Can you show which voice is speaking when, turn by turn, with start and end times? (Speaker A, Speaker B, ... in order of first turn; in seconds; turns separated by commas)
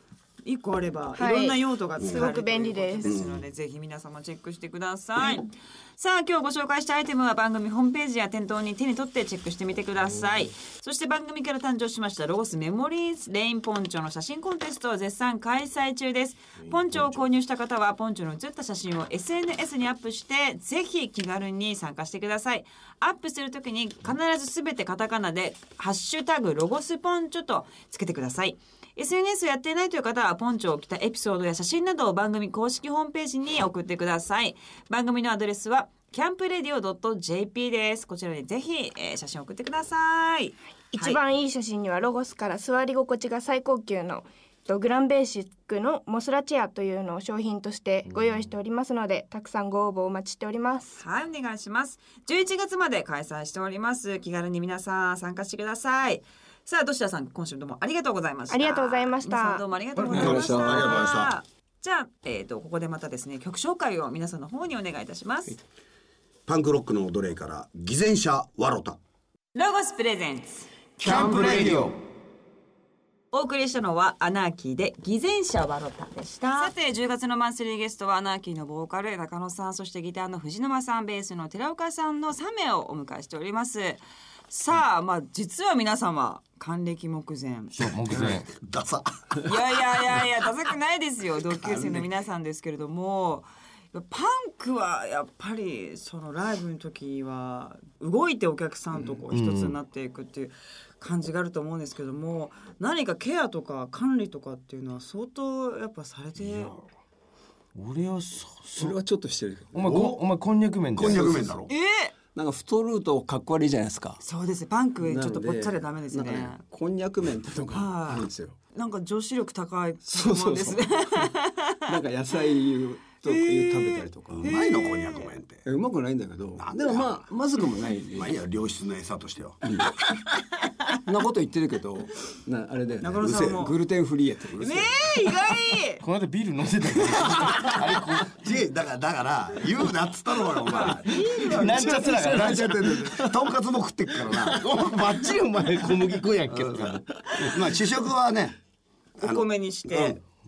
Speaker A: 0.4-41.2, Speaker B: 1.1-3.1, Speaker C: 2.0-2.3, Speaker C: 3.0-3.4, Speaker B: 40.9-51.0, Speaker D: 48.0-48.5, Speaker A: 51.0-65.6, Speaker B: 58.5-59.6, Speaker E: 60.0-61.0, Speaker C: 60.1-61.4, Speaker C: 66.5-69.0, Speaker A: 69.5-71.5, Speaker C: 71.0-71.9, Speaker D: 71.0-72.0, Speaker A: 73.3-87.8, Speaker D: 87.8-88.5, Speaker C: 87.9-89.5, Speaker A: 89.4-106.8, Speaker C: 91.7-92.0, Speaker D: 99.3-99.8, Speaker D: 106.4-106.7, Speaker D: 107.7-109.0, Speaker E: 108.7-109.9, Speaker D: 109.7-111.5, Speaker C: 109.8-110.2, Speaker C: 110.9-111.7, Speaker E: 111.0-111.5, Speaker A: 111.7-112.1, Speaker E: 112.3-114.2, Speaker A: 114.2-116.6, Speaker E: 115.0-118.6, Speaker A: 117.7-121.9, Speaker E: 120.0-124.5, Speaker A: 123.2-125.3, Speaker C: 124.3-125.6, Speaker E: 125.6-128.3, Speaker C: 126.5-127.3, Speaker C: 128.1-129.9, Speaker E: 129.6-129.9, Speaker A: 130.6-130.9, Speaker E: 131.0-135.1, Speaker A: 133.0-133.8, Speaker C: 133.2-133.7, Speaker A: 134.6-136.0, Speaker D: 136.0-138.3, Speaker E: 137.1-137.8, Speaker C: 138.3-141.4, Speaker A: 140.5-142.5, Speaker E: 141.4-143.5, Speaker D: 141.4-143.1, Speaker C: 142.4-145.0, Speaker E: 144.2-144.7, Speaker D: 144.5-147.1, Speaker C: 146.5-148.6, Speaker C: 149.2-150.2, Speaker A: 149.2-150.2